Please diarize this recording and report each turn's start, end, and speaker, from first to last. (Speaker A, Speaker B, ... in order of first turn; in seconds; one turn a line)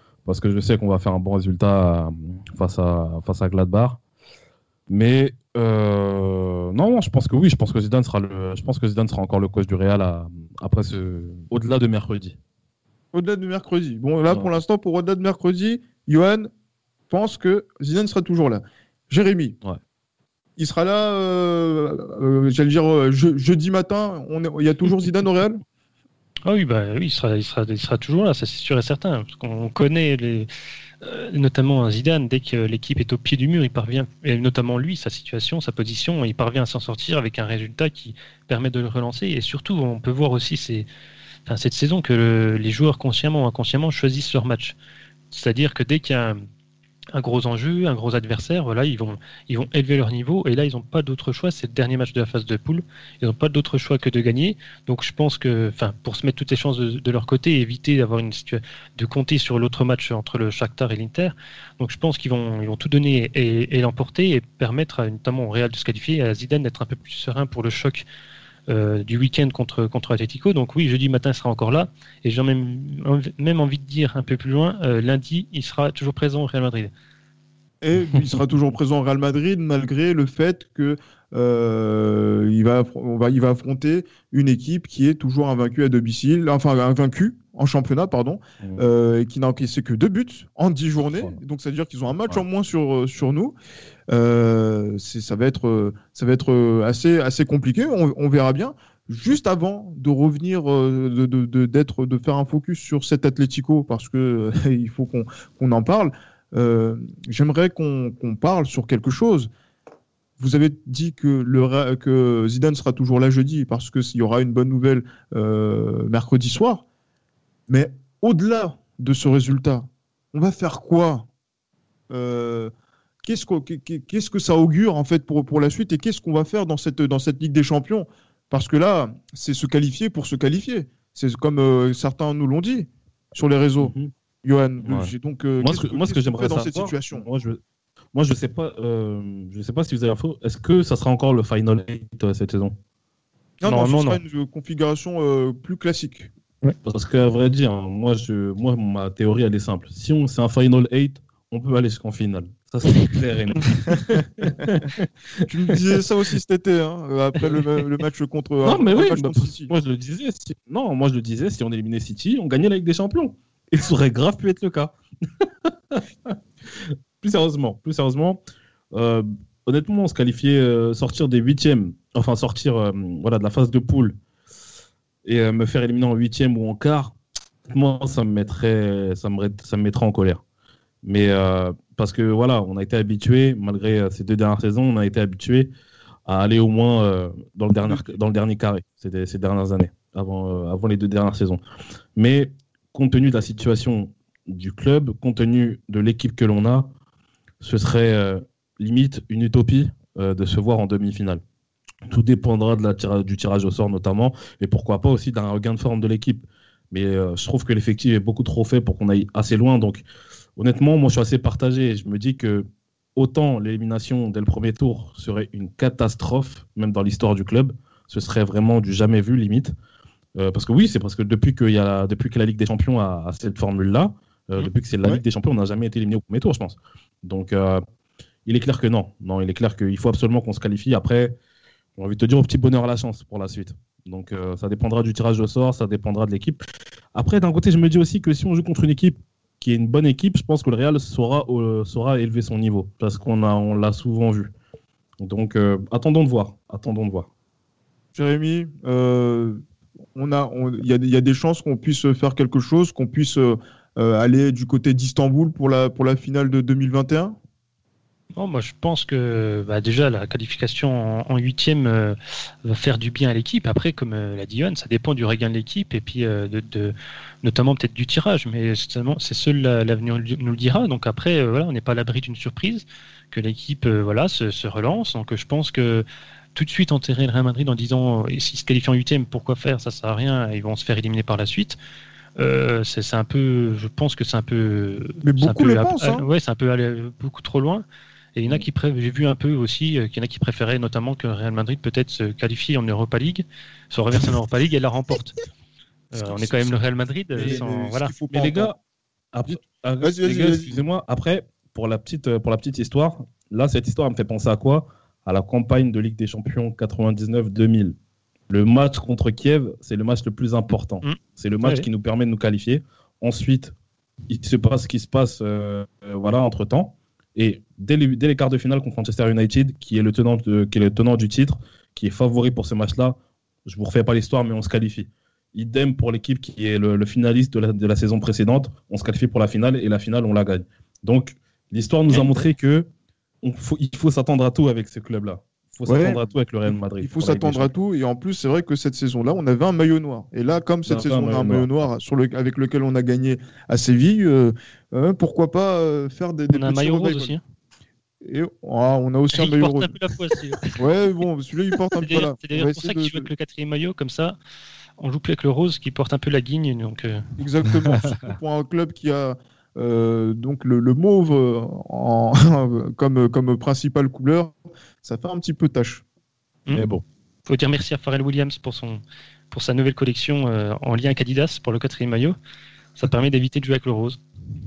Speaker A: 0.3-4.0
Speaker A: 4.9-12.4
Speaker B: 13.1-16.5
Speaker B: 17.1-19.6
Speaker B: 20.6-25.6
Speaker C: 26.5-30.5
Speaker C: 31.0-40.9
Speaker C: 41.5-44.8
Speaker C: 45.3-46.4
Speaker C: 47.1-68.1
Speaker C: 68.7-76.9
Speaker B: 77.8-93.5
Speaker B: 94.1-109.5
Speaker B: 110.4-116.8
Speaker B: 117.7-121.3
Speaker B: 122.1-122.7
Speaker B: 123.2-133.9
Speaker A: 133.8-134.1
Speaker B: 134.4-137.3
Speaker A: 134.8-137.6
Speaker A: 138.1-142.8
Speaker B: 143.6-146.3
Speaker C: 143.6-144.2
Speaker A: 146.8-155.1
Speaker B: 155.5-159.7
Speaker A: 158.6-168.4
Speaker A: 168.9-174.2
Speaker A: 175.2-177.2
Speaker A: 177.7-180.4
Speaker A: 181.0-185.7
Speaker A: 186.3-191.6
Speaker A: 192.2-196.9
Speaker A: 197.6-201.4
Speaker A: 202.1-210.1
Speaker A: 210.6-219.7
Speaker A: 220.3-227.8
Speaker A: 228.5-231.4
Speaker A: 232.0-236.6
Speaker A: 237.2-244.5
Speaker A: 245.2-247.3
Speaker B: 248.2-249.6
Speaker B: 250.2-257.4
Speaker C: 258.4-281.8
Speaker C: 282.4-287.8
Speaker B: 285.2-286.2
Speaker C: 288.4-295.4
Speaker C: 296.1-298.1
Speaker B: 296.2-296.8
Speaker A: 297.4-297.6
Speaker B: 297.4-298.7
Speaker A: 298.3-298.8
Speaker A: 299.3-308.0
Speaker B: 299.5-300.8
Speaker A: 308.5-313.7
Speaker C: 311.0-311.9
Speaker A: 314.3-332.9
Speaker A: 333.4-337.7
Speaker B: 335.9-347.4
Speaker A: 340.9-341.7
Speaker C: 346.5-347.4
Speaker B: 348.2-349.9
Speaker C: 349.3-350.8
Speaker B: 350.8-353.3
Speaker C: 352.0-354.4
Speaker C: 355.0-357.2
Speaker B: 357.4-366.0
Speaker A: 366.7-367.0
Speaker C: 367.5-372.4
Speaker C: 373.0-374.2